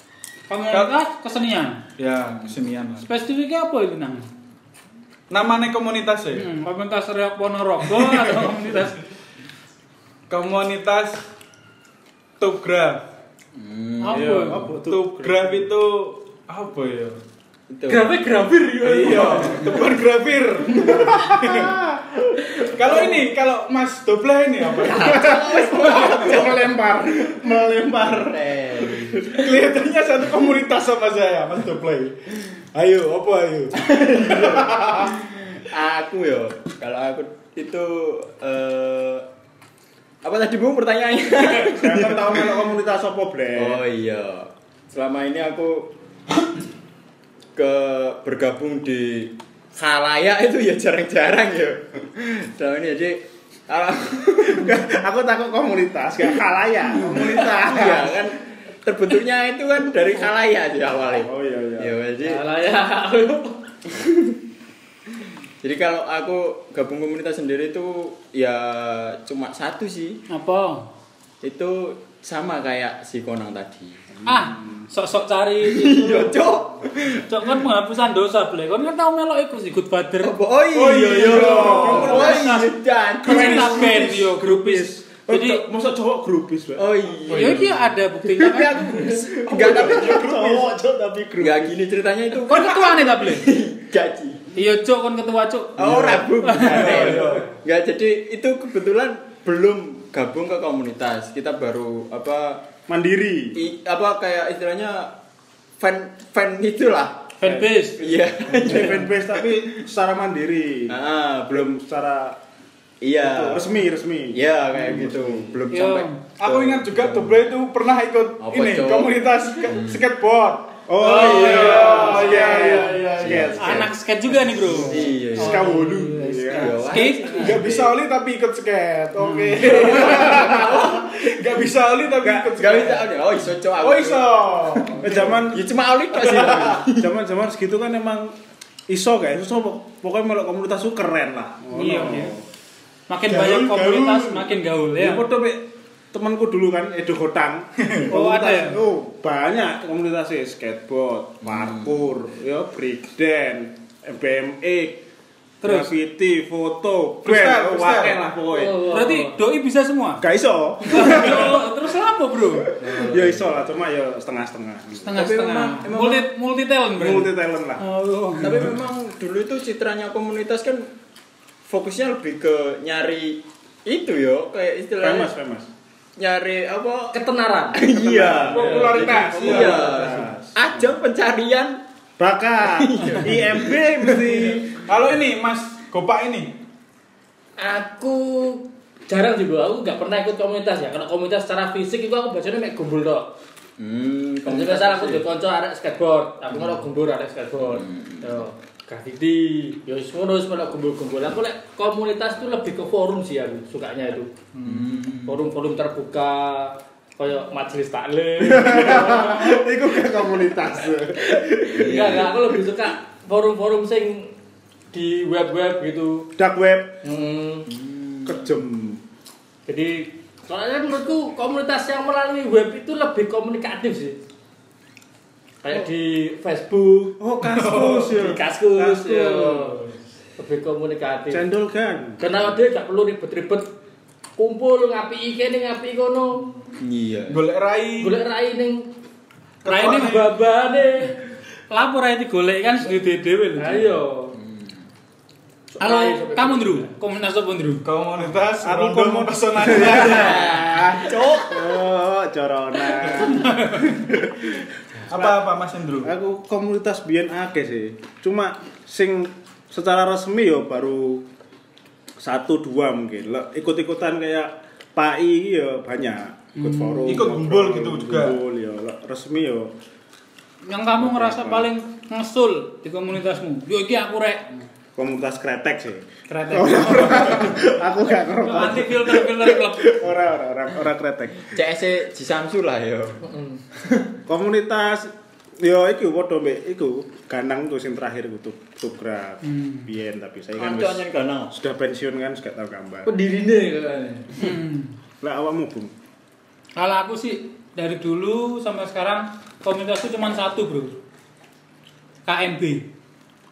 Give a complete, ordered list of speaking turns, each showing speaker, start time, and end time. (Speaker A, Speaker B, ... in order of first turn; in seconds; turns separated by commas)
Speaker A: 0.5-1.8, Speaker B: 0.7-0.9, Speaker B: 2.0-3.0, Speaker A: 3.0-4.3, Speaker B: 5.3-6.5, Speaker A: 6.3-9.0, Speaker B: 8.0-8.3, Speaker B: 10.3-11.2, Speaker B: 12.4-13.0, Speaker C: 13.5-14.4, Speaker A: 14.0-14.6, Speaker B: 14.1-17.2, Speaker D: 14.2-15.7, Speaker C: 17.7-18.1, Speaker E: 17.9-19.8, Speaker B: 18.8-21.8, Speaker D: 20.8-23.1, Speaker B: 22.7-25.4, Speaker C: 24.7-26.7, Speaker D: 24.9-29.4, Speaker C: 28.1-29.3, Speaker B: 29.3-35.1, Speaker C: 33.9-35.0, Speaker C: 35.5-39.2, Speaker C: 40.2-42.5, Speaker D: 41.7-43.8, Speaker C: 43.5-45.9, Speaker C: 47.5-54.8, Speaker D: 54.4-58.2, Speaker C: 57.0-62.4, Speaker D: 61.1-62.0, Speaker E: 62.2-63.6, Speaker C: 65.6-70.2, Speaker A: 70.3-70.9, Speaker C: 71.4-74.0, Speaker D: 74.2-74.8, Speaker A: 74.2-76.3, Speaker C: 75.6-77.3, Speaker A: 77.3-80.3, Speaker C: 80.2-84.0, Speaker B: 80.7-82.4, Speaker D: 80.9-82.6, Speaker A: 81.3-85.6, Speaker D: 83.2-86.8, Speaker C: 86.8-87.7, Speaker B: 87.2-87.7, Speaker A: 87.3-89.2, Speaker C: 88.3-90.8, Speaker D: 89.0-91.7, Speaker C: 91.4-94.5, Speaker A: 92.5-93.5, Speaker A: 94.5-97.1, Speaker C: 95.8-102.6, Speaker B: 96.6-97.5, Speaker D: 102.9-103.6, Speaker C: 103.5-105.1, Speaker C: 105.8-107.3, Speaker A: 107.4-108.0, Speaker D: 107.4-111.0, Speaker C: 108.0-109.6, Speaker C: 110.9-111.7, Speaker D: 111.5-112.4, Speaker C: 113.0-113.8, Speaker D: 113.2-115.6, Speaker C: 114.3-117.3, Speaker A: 115.7-116.2, Speaker B: 116.4-123.5, Speaker C: 118.4-120.0, Speaker D: 120.9-123.9, Speaker A: 121.0-122.0, Speaker C: 121.2-123.9, Speaker A: 123.5-127.5, Speaker C: 124.7-125.6, Speaker D: 125.3-126.8, Speaker C: 126.5-128.0, Speaker B: 127.2-133.1, Speaker A: 129.2-129.8, Speaker C: 129.6-130.9, Speaker D: 129.9-130.9, Speaker D: 132.2-132.5, Speaker C: 132.6-137.1, Speaker B: 133.8-135.4, Speaker D: 135.0-135.7, Speaker B: 136.2-136.7, Speaker D: 136.8-138.3, Speaker D: 138.9-142.4, Speaker A: 141.7-142.3, Speaker A: 143.1-145.2, Speaker D: 143.3-143.7, Speaker B: 143.3-144.3, Speaker D: 145.0-155.0, Speaker B: 147.8-148.1, Speaker A: 148.1-148.8, Speaker C: 151.4-152.1, Speaker A: 155.6-155.9, Speaker D: 155.6-158.8, Speaker B: 157.2-158.2, Speaker E: 158.5-159.3, Speaker A: 158.9-160.2, Speaker D: 160.2-161.7, Speaker A: 160.8-162.7, Speaker D: 162.6-165.2, Speaker C: 162.8-163.5, Speaker A: 165.0-168.7, Speaker C: 165.1-166.3, Speaker D: 166.9-167.8, Speaker C: 168.4-170.9, Speaker C: 171.7-175.3, Speaker D: 175.0-175.7, Speaker C: 176.2-177.2, Speaker E: 177.1-177.8, Speaker C: 177.7-181.8, Speaker D: 177.8-180.9, Speaker B: 178.5-179.9, Speaker E: 179.2-180.2, Speaker D: 182.2-184.8, Speaker C: 182.6-184.2, Speaker B: 184.8-186.6, Speaker E: 187.6-193.3, Speaker C: 193.8-195.2, Speaker E: 194.4-204.3, Speaker C: 196.5-196.8, Speaker C: 197.7-198.4, Speaker C: 204.6-205.4, Speaker B: 204.6-205.0, Speaker E: 205.2-209.6, Speaker D: 208.4-212.0, Speaker E: 211.2-214.3, Speaker C: 211.8-212.3, Speaker E: 214.9-216.3, Speaker D: 216.4-217.0, Speaker E: 217.0-217.7, Speaker C: 217.7-218.4, Speaker D: 218.2-219.0, Speaker E: 219.7-224.2, Speaker E: 225.6-227.2, Speaker D: 227.2-229.3, Speaker B: 227.4-228.1, Speaker E: 227.8-229.8, Speaker B: 229.2-229.9, Speaker E: 230.4-231.4, Speaker D: 231.3-232.4, Speaker E: 232.2-233.7, Speaker E: 234.4-236.5, Speaker C: 236.8-237.4, Speaker B: 237.3-238.2, Speaker E: 238.0-238.9, Speaker B: 239.6-240.3, Speaker A: 239.6-240.2, Speaker E: 239.8-241.1, Speaker A: 241.7-244.0, Speaker E: 243.6-244.3, Speaker C: 244.4-244.7, Speaker E: 245.7-246.9, Speaker A: 245.8-247.8, Speaker B: 247.8-250.7, Speaker D: 248.6-255.4, Speaker C: 250.0-251.7, Speaker A: 253.4-253.8, Speaker B: 255.0-256.1, Speaker D: 256.0-261.2, Speaker D: 262.2-269.7, Speaker A: 266.5-267.3, Speaker B: 267.1-268.4, Speaker A: 270.6-274.6, Speaker D: 271.0-271.7, Speaker D: 274.9-281.6, Speaker A: 276.3-277.6, Speaker A: 278.4-280.0, Speaker C: 281.5-283.2, Speaker E: 283.2-283.6, Speaker D: 284.2-293.1, Speaker A: 289.4-289.9, Speaker C: 290.6-291.5, Speaker E: 293.1-294.4, Speaker A: 294.4-294.9, Speaker D: 295.2-295.9, Speaker A: 296.8-301.0, Speaker A: 302.2-302.9